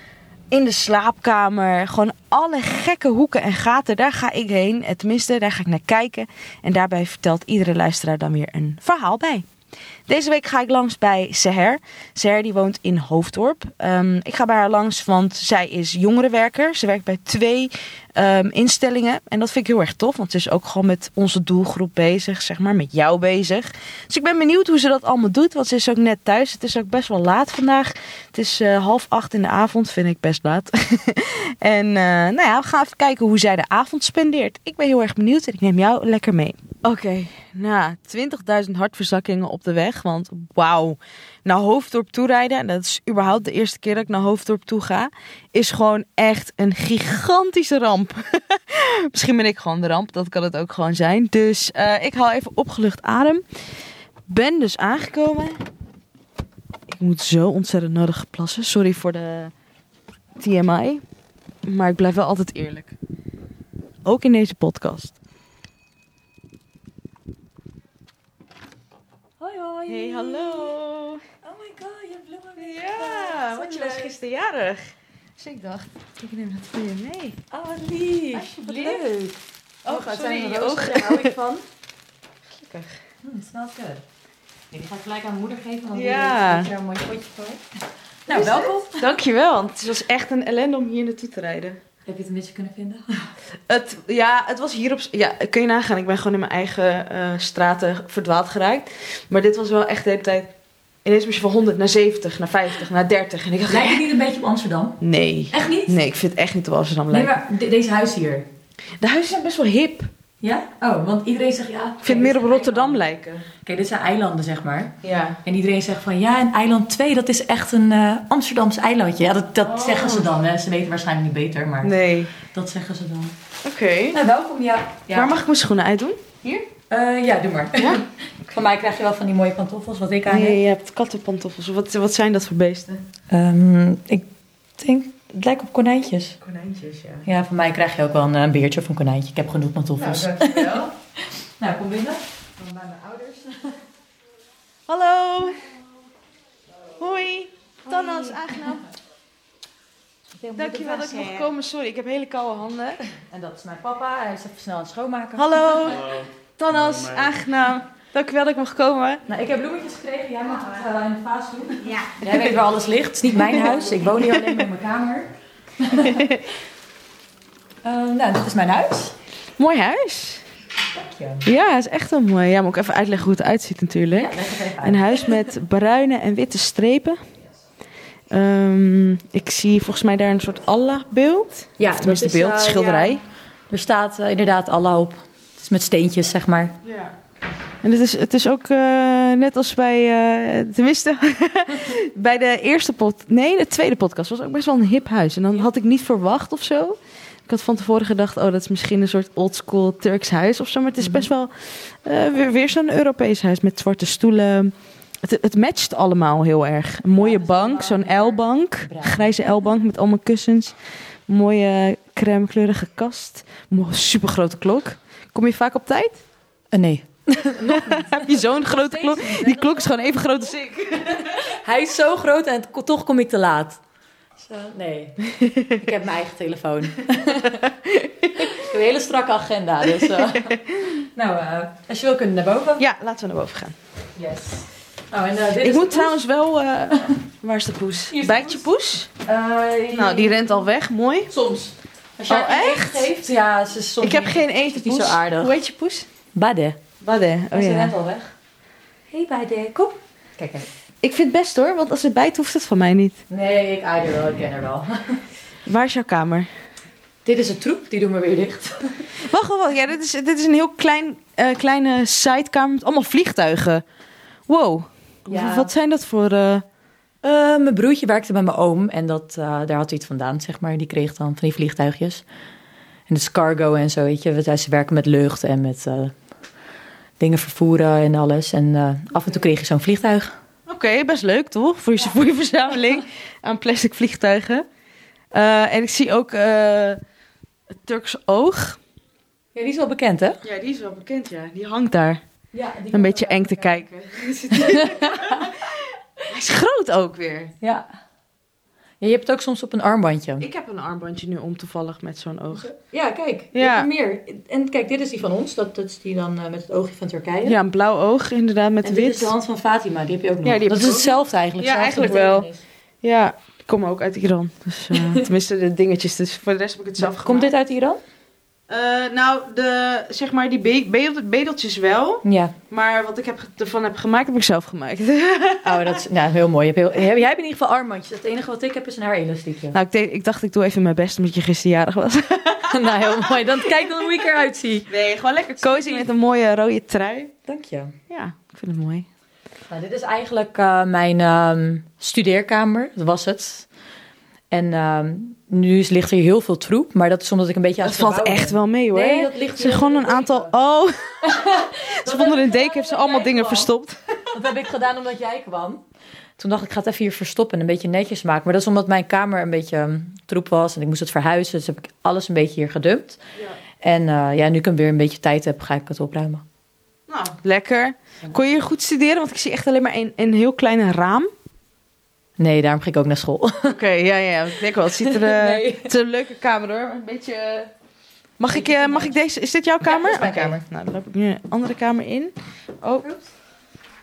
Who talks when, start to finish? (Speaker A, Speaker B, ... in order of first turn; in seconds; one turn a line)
Speaker A: 0.5-9.5
Speaker A: 10.1-53.4
Speaker A: 54.3-55.6
Speaker A: 56.9-59.5
Speaker A: 60.4-61.0
Speaker A: 61.6-62.9
Speaker A: 64.0-65.2
Speaker B: 69.4-70.8
Speaker A: 69.9-71.2
Speaker B: 71.4-74.1
Speaker A: 72.6-77.4
Speaker B: 77.5-81.6
Speaker A: 78.3-79.0
Speaker A: 79.8-81.4
Speaker A: 82.5-83.0
Speaker B: 83.2-84.0
Speaker B: 84.7-87.6
Speaker A: 85.9-86.7
Speaker B: 88.3-89.0
Speaker A: 88.3-91.8
Speaker B: 92.0-93.3
Speaker A: 93.7-100.5
Speaker A: 101.0-104.1
Speaker B: 103.7-105.0
Speaker A: 105.0-107.4
Speaker B: 105.5-105.9
Speaker B: 107.1-108.5
Speaker A: 109.0-110.1
Speaker B: 110.4-113.0
Speaker A: 112.0-113.5
Speaker B: 113.6-123.3
Speaker A: 115.0-115.4
Speaker A: 119.6-120.3
Speaker A: 121.8-122.3
Speaker A: 123.6-124.2
Speaker B: 124.1-125.3
Speaker A: 125.1-126.7
Speaker B: 126.9-130.6
Speaker A: 127.8-128.0
Speaker A: 130.3-133.0
Speaker B: 133.3-134.3
Speaker B: 134.8-136.3
Speaker A: 136.4-137.3
Speaker B: 137.2-143.8
Speaker A: 140.0-140.9
Speaker A: 144.9-145.7
Speaker A: 147.0-148.9
Speaker B: 147.9-148.7
Speaker B: 150.4-151.5
Speaker A: 150.5-153.1
Speaker B: 153.3-156.0
Speaker A: 155.3-159.2
Speaker B: 159.3-166.3
Speaker A: 166.0-166.4
Speaker B: 167.8-169.2
Speaker A: 169.6-170.4
Speaker B: 171.0-171.4
Speaker A: 171.4-177.2
Speaker B: 174.1-175.4
Speaker A: 178.3-183.2
Speaker B: 181.8-183.2
Speaker B: 183.7-186.7
Speaker A: 186.8-187.1
Speaker A: 187.8-197.0
Speaker A: 197.5-201.5
Speaker B: 201.0-201.3
Speaker A: 202.0-210.7
Speaker B: 207.2-209.3
Speaker A: 211.3-216.2
Speaker B: 216.7-220.4
Speaker A: 217.6-221.4
Speaker B: 221.1-223.8
Speaker B: 224.4-225.2
Speaker A: 225.3-225.8
Speaker B: 225.7-227.7
Speaker A: 227.4-228.7
Speaker B: 228.4-232.8
Speaker A: 230.0-231.1
Speaker A: 232.8-233.8
Speaker B: 234.2-236.2
Speaker A: 235.6-239.1
Speaker B: 238.1-238.6
Speaker B: 239.2-240.5
Speaker A: 239.9-241.3
Speaker B: 241.3-245.5
Speaker A: 242.3-243.1
Speaker A: 244.0-246.1
Speaker B: 246.3-246.8
Speaker A: 247.0-247.9
Speaker B: 247.5-248.3
Speaker B: 249.1-250.7
Speaker A: 251.0-253.2
Speaker B: 253.3-255.2
Speaker A: 255.7-256.5
Speaker B: 257.2-259.1
Speaker A: 259.2-263.8
Speaker A: 264.5-266.6
Speaker B: 265.3-265.7
Speaker B: 267.2-272.2
Speaker B: 273.1-276.1
Speaker B: 277.2-280.3
Speaker A: 280.7-284.6
Speaker A: 285.3-287.0
Speaker A: 287.9-288.8
Speaker B: 289.5-290.4
Speaker A: 290.4-292.2
Speaker B: 292.5-293.8
Speaker A: 292.9-297.5
Speaker B: 294.5-295.5
Speaker B: 297.6-297.9
Speaker B: 299.0-300.4
Speaker A: 300.4-302.7
Speaker B: 302.5-307.6
Speaker A: 303.5-303.9
Speaker A: 307.4-309.3
Speaker B: 308.8-312.6
Speaker A: 310.4-312.5
Speaker A: 313.0-317.5
Speaker B: 314.9-315.2
Speaker B: 317.0-318.0
Speaker A: 318.7-326.0
Speaker B: 322.2-322.5
Speaker B: 325.6-329.8
Speaker A: 329.7-333.4
Speaker B: 332.7-334.9
Speaker A: 334.9-337.3
Speaker B: 335.6-336.0
Speaker B: 337.4-337.9
Speaker A: 338.1-339.1
Speaker B: 339.7-343.7
Speaker B: 344.5-350.5
Speaker A: 347.8-354.3
Speaker B: 351.2-353.7
Speaker B: 354.3-355.8
Speaker B: 356.4-363.2
Speaker B: 363.8-366.4
Speaker A: 367.1-371.3
Speaker B: 372.4-373.8
Speaker A: 373.6-377.7
Speaker B: 375.0-375.9
Speaker A: 378.4-383.1
Speaker B: 378.5-379.2
Speaker B: 379.8-380.6